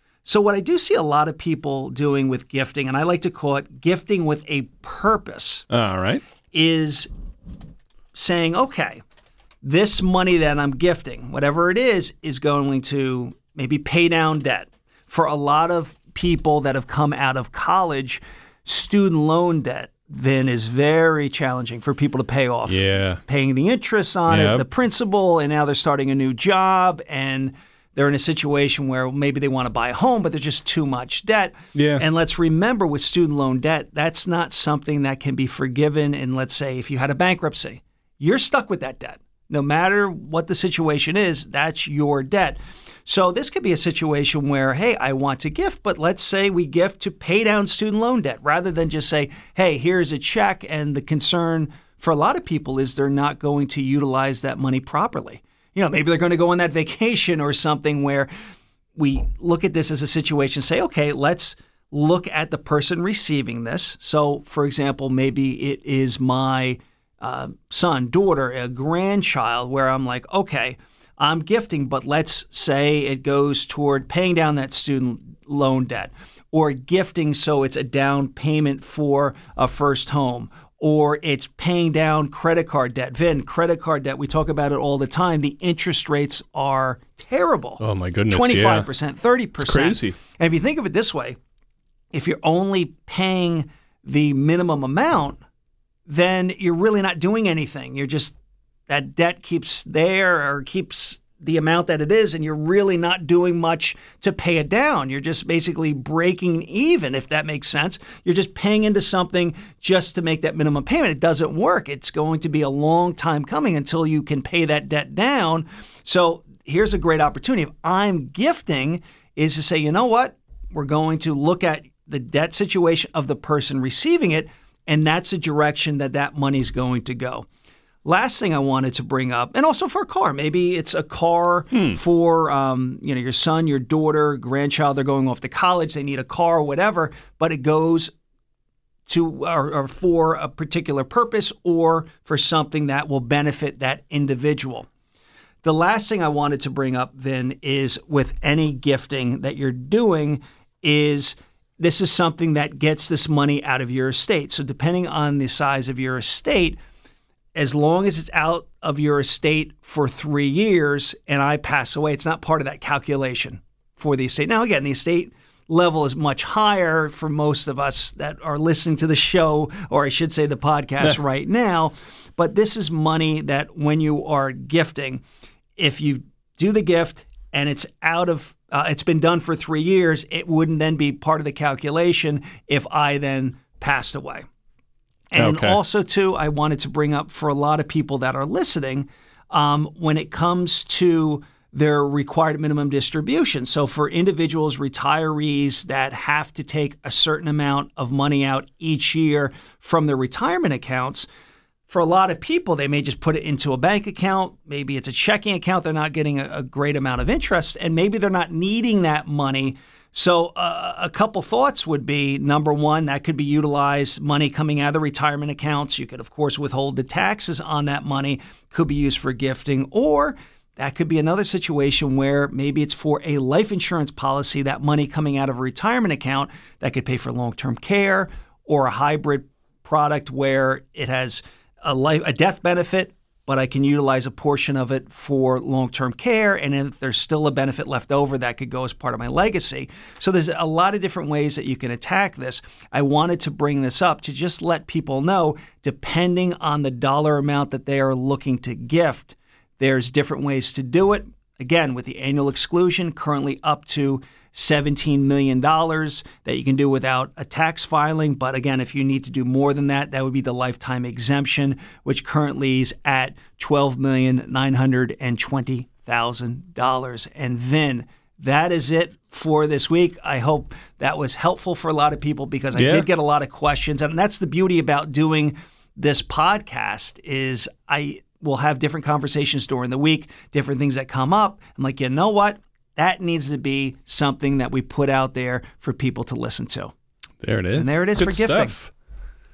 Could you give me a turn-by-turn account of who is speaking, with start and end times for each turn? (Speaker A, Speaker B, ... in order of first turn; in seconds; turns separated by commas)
Speaker A: 0.2-5.7, Speaker B: 5.7-6.2, Speaker A: 6.5-7.1, Speaker A: 8.1-9.0, Speaker A: 9.6-58.3, Speaker B: 22.7-23.2, Speaker B: 24.3-24.6, Speaker B: 31.8-32.0, Speaker A: 59.0-91.4, Speaker B: 87.8-88.9, Speaker B: 89.6-90.2, Speaker A: 92.1-95.4, Speaker A: 96.1-98.4, Speaker A: 98.9-127.5, Speaker A: 128.1-138.1, Speaker B: 131.7-132.0, Speaker A: 139.1-144.9, Speaker A: 145.6-156.8, Speaker A: 157.6-175.2, Speaker A: 175.8-184.5, Speaker A: 185.3-201.3, Speaker B: 185.4-185.8, Speaker A: 201.9-286.9, Speaker B: 272.8-273.1, Speaker B: 287.4-288.9, Speaker A: 287.7-288.8